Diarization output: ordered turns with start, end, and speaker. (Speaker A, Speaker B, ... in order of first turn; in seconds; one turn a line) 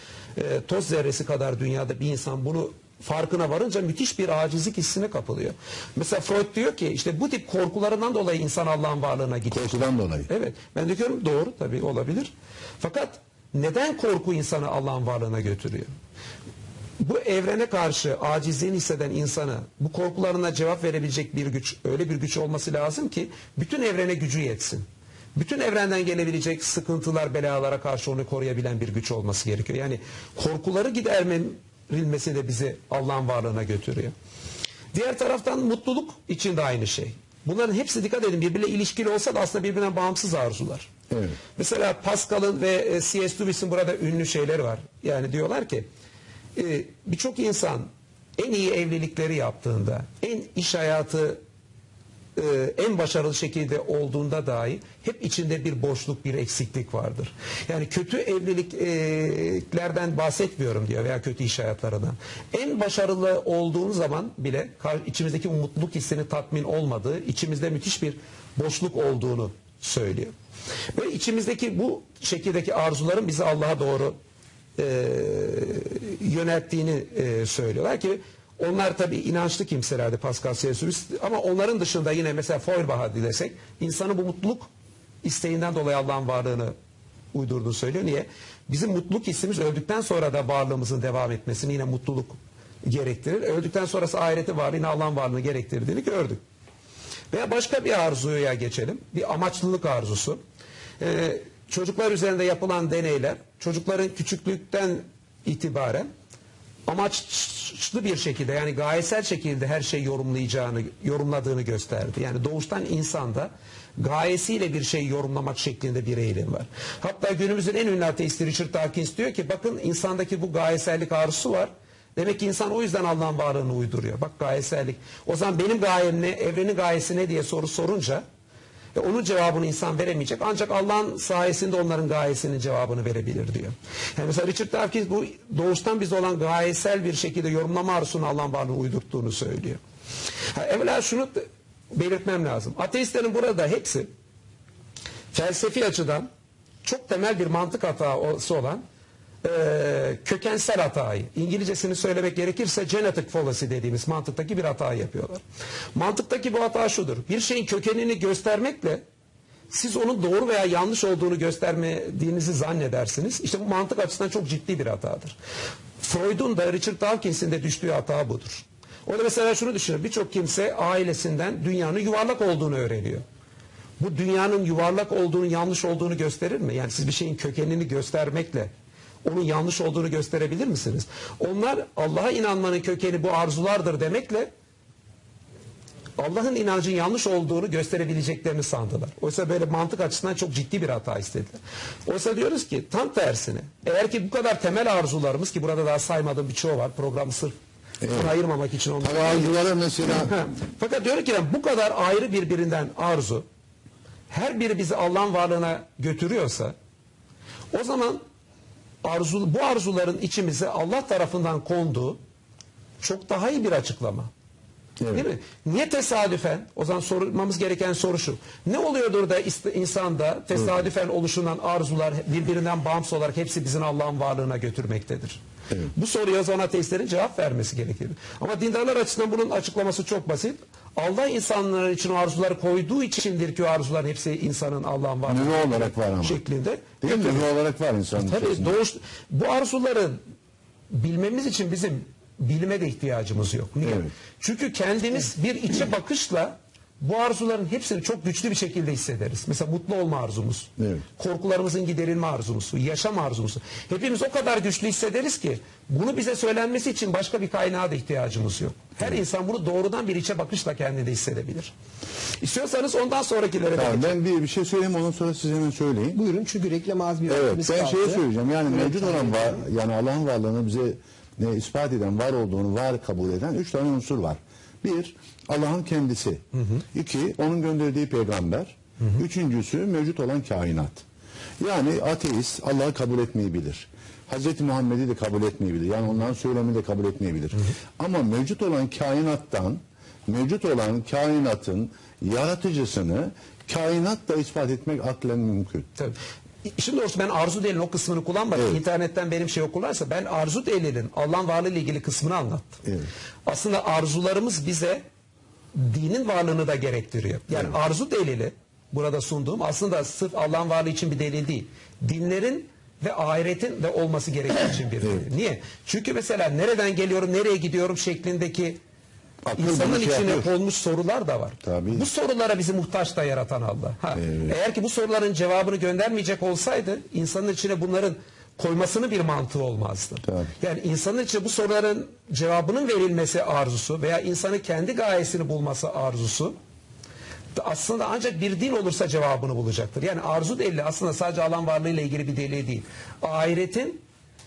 Speaker A: 0.3-15.9
Speaker B: 9.5-10.3
Speaker A: 17.0-34.1
Speaker A: 34.9-40.9
Speaker B: 41.1-41.4
Speaker A: 41.5-45.9
Speaker A: 46.5-51.4
Speaker A: 52.4-70.3
Speaker A: 70.9-74.2
Speaker A: 74.8-84.7
Speaker A: 85.2-86.7
Speaker A: 87.3-96.4
Speaker A: 97.3-100.4
Speaker A: 101.0-106.1
Speaker A: 106.9-128.2
Speaker A: 128.9-139.8
Speaker A: 140.5-144.1
Speaker A: 145.3-146.3
Speaker A: 146.8-148.8
Speaker A: 149.4-155.4
Speaker A: 155.9-159.0
Speaker A: 159.7-165.4
Speaker A: 166.0-173.2
Speaker A: 174.0-178.7
Speaker A: 179.2-184.5
Speaker A: 186.2-197.5
Speaker B: 198.0-198.3
Speaker A: 198.1-203.4
Speaker B: 199.0-200.4
Speaker A: 204.3-206.8
Speaker A: 207.7-208.2
Speaker A: 209.0-212.2
Speaker A: 213.0-214.3
Speaker B: 215.0-215.3
Speaker A: 215.1-225.4
Speaker B: 220.6-220.8
Speaker A: 225.9-237.5
Speaker B: 235.3-236.4
Speaker B: 237.0-238.8
Speaker A: 238.2-240.2
Speaker A: 240.9-261.7
Speaker B: 243.8-244.1
Speaker B: 250.8-251.1
Speaker A: 262.4-264.2
Speaker B: 263.8-266.2
Speaker C: 266.1-269.6
Speaker B: 267.3-281.0
Speaker B: 281.6-295.9
Speaker A: 296.0-302.8
Speaker A: 303.5-305.0
Speaker A: 305.7-318.8
Speaker B: 319.4-320.5
Speaker A: 319.6-336.6
Speaker B: 321.6-322.1
Speaker B: 324.2-324.6
Speaker B: 330.3-330.5
Speaker A: 337.5-344.0